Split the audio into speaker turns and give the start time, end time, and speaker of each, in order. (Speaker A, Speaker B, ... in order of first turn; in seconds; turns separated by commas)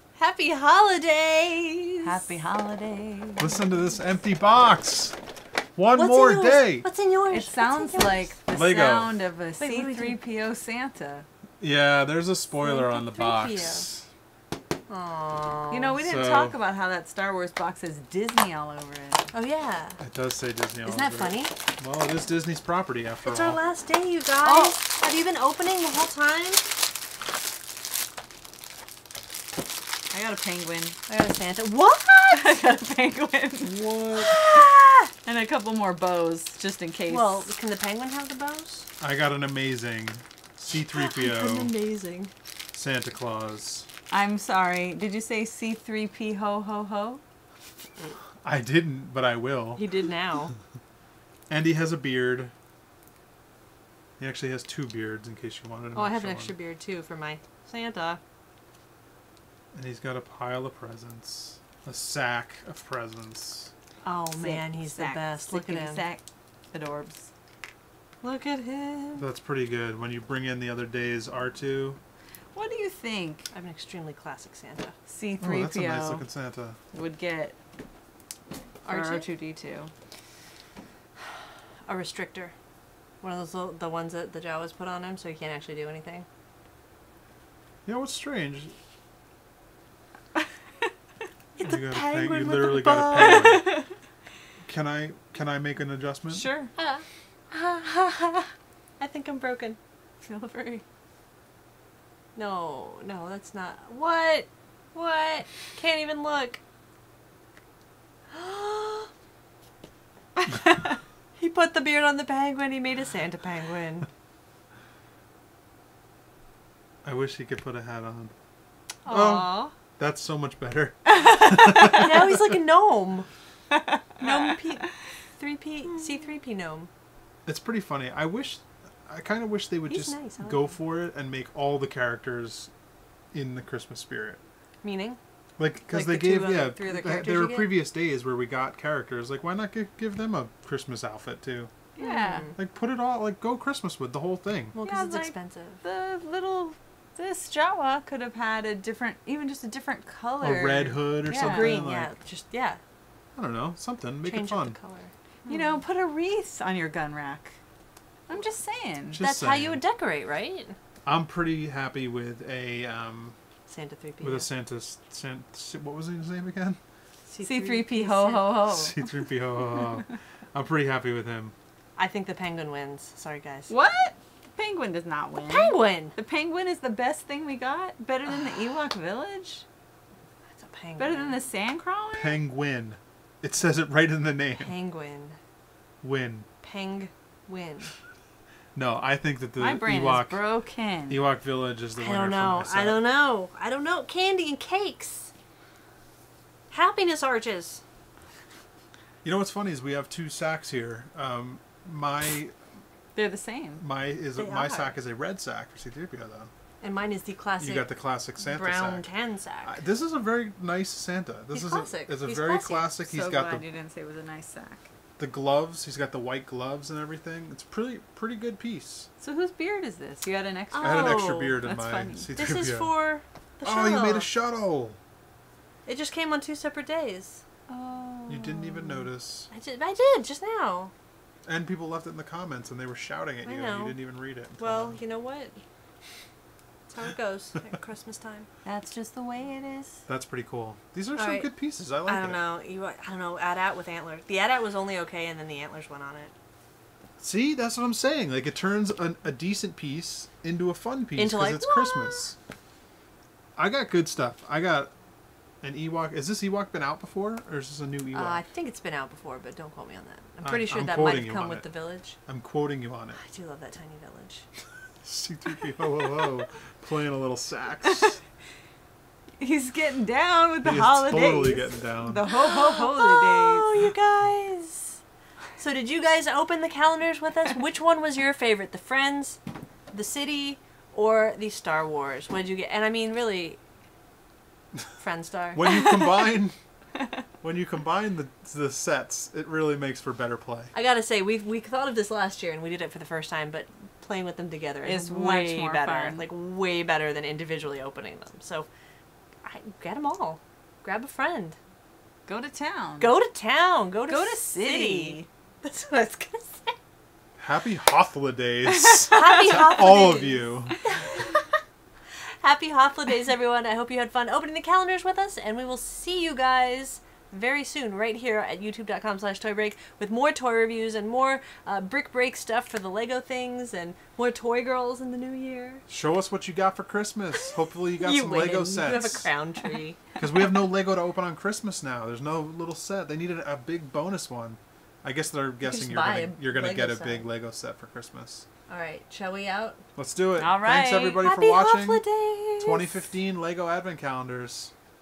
Speaker A: 0.1-2.2, Speaker B: 2.0-3.6, Speaker C: 3.4-5.2, Speaker C: 5.8-6.8, Speaker A: 5.9-8.3, Speaker B: 7.3-11.2, Speaker C: 8.5-9.2, Speaker A: 9.6-10.2, Speaker C: 11.6-14.1, Speaker A: 12.6-13.9, Speaker A: 14.9-15.9, Speaker B: 15.7-19.3, Speaker C: 16.0-16.6, Speaker A: 19.3-20.0, Speaker C: 20.0-23.6, Speaker A: 20.8-21.5, Speaker A: 23.2-26.6, Speaker B: 24.4-24.8, Speaker B: 30.1-31.0, Speaker A: 31.1-32.7, Speaker B: 32.3-33.8, Speaker C: 33.6-34.4, Speaker A: 34.2-35.0, Speaker B: 35.2-37.5, Speaker A: 37.1-38.9, Speaker C: 39.0-41.7, Speaker A: 40.9-42.3, Speaker C: 42.7-43.9, Speaker B: 44.1-47.2, Speaker C: 48.4-49.8, Speaker A: 49.8-50.5, Speaker C: 51.5-52.5, Speaker C: 54.2-56.5, Speaker A: 55.9-58.2, Speaker C: 59.7-63.7, Speaker A: 64.0-66.0, Speaker B: 64.3-67.3, Speaker A: 68.2-69.3, Speaker C: 69.2-72.0, Speaker B: 72.5-73.5, Speaker A: 73.5-75.0, Speaker B: 75.1-76.2, Speaker C: 75.4-76.8, Speaker B: 76.9-77.6, Speaker A: 78.8-79.3, Speaker B: 78.8-79.9, Speaker A: 81.9-82.5, Speaker A: 83.2-86.2, Speaker C: 87.8-88.7, Speaker A: 91.5-93.7, Speaker C: 91.6-93.8, Speaker B: 93.2-93.8, Speaker C: 94.6-96.5, Speaker B: 96.3-96.7, Speaker A: 96.8-99.8, Speaker B: 100.2-100.8, Speaker A: 102.3-106.6, Speaker A: 108.3-109.1, Speaker A: 111.4-114.1, Speaker C: 117.0-118.3, Speaker A: 119.0-119.7, Speaker C: 119.0-122.4, Speaker B: 121.1-122.1, Speaker A: 121.9-123.3, Speaker B: 123.7-124.6, Speaker A: 124.2-124.8, Speaker A: 125.4-126.9, Speaker C: 127.5-132.7, Speaker A: 129.9-130.8, Speaker C: 133.3-134.4, Speaker A: 134.8-135.2, Speaker C: 135.6-141.7, Speaker A: 135.9-137.8, Speaker B: 142.0-142.5, Speaker A: 142.0-142.6, Speaker C: 142.6-144.8, Speaker A: 144.7-145.8, Speaker B: 144.8-151.8, Speaker C: 150.4-152.1, Speaker A: 151.3-152.8, Speaker C: 153.3-154.8, Speaker A: 154.2-155.8, Speaker B: 155.5-157.6, Speaker B: 158.3-159.2, Speaker C: 159.1-159.8, Speaker A: 159.2-160.8, Speaker C: 161.1-163.3, Speaker A: 163.7-164.5, Speaker C: 164.2-166.8, Speaker A: 167.3-168.6, Speaker B: 167.4-169.0, Speaker C: 168.7-171.5, Speaker A: 172.0-173.7, Speaker B: 173.7-179.7, Speaker A: 175.5-176.2, Speaker A: 180.5-181.4, Speaker B: 181.0-182.4, Speaker C: 182.1-184.7, Speaker A: 184.6-185.4, Speaker C: 186.0-186.5, Speaker A: 186.6-187.9, Speaker C: 188.8-190.4, Speaker B: 189.6-191.2, Speaker C: 191.1-193.0, Speaker A: 192.0-195.3, Speaker A: 196.7-197.8, Speaker C: 199.2-202.5, Speaker B: 203.2-203.8, Speaker C: 203.8-206.5, Speaker A: 204.3-204.9, Speaker A: 206.8-209.8, Speaker C: 207.6-209.1, Speaker C: 209.6-213.7, Speaker A: 211.5-212.9, Speaker B: 213.1-214.8, Speaker C: 215.2-219.1, Speaker B: 219.2-222.3, Speaker A: 220.7-221.6, Speaker C: 220.8-222.9, Speaker A: 222.3-224.3, Speaker C: 223.6-225.0, Speaker A: 225.8-227.4, Speaker B: 227.7-229.1, Speaker C: 228.3-229.5, Speaker A: 229.5-230.9, Speaker C: 231.5-235.0, Speaker A: 233.4-234.0, Speaker A: 234.5-235.6, Speaker A: 236.9-238.5, Speaker B: 238.6-240.0, Speaker C: 240.1-242.4, Speaker A: 241.2-246.3, Speaker C: 247.2-252.3, Speaker A: 251.2-252.3, Speaker C: 253.6-254.9, Speaker C: 255.6-258.4, Speaker A: 258.1-262.2, Speaker C: 260.4-261.7, Speaker C: 262.3-263.2, Speaker A: 263.1-264.5, Speaker C: 265.0-268.2, Speaker B: 269.4-273.7, Speaker C: 270.6-272.2, Speaker A: 272.3-275.0, Speaker A: 275.6-279.4, Speaker A: 279.9-283.6, Speaker A: 285.0-285.9, Speaker C: 285.5-286.6, Speaker C: 287.4-290.7, Speaker A: 290.7-298.7, Speaker B: 294.8-296.2, Speaker A: 299.4-301.6, Speaker B: 302.3-303.2, Speaker A: 303.0-306.8, Speaker B: 304.1-305.3, Speaker C: 307.4-310.8, Speaker B: 308.9-309.6, Speaker A: 309.1-311.4, Speaker A: 312.2-325.8, Speaker C: 325.9-329.3, Speaker A: 328.0-330.0, Speaker C: 330.1-338.5, Speaker A: 335.6-337.3, Speaker A: 338.7-339.8, Speaker C: 340.0-342.0, Speaker B: 340.4-341.2, Speaker A: 341.2-343.1, Speaker C: 342.6-344.7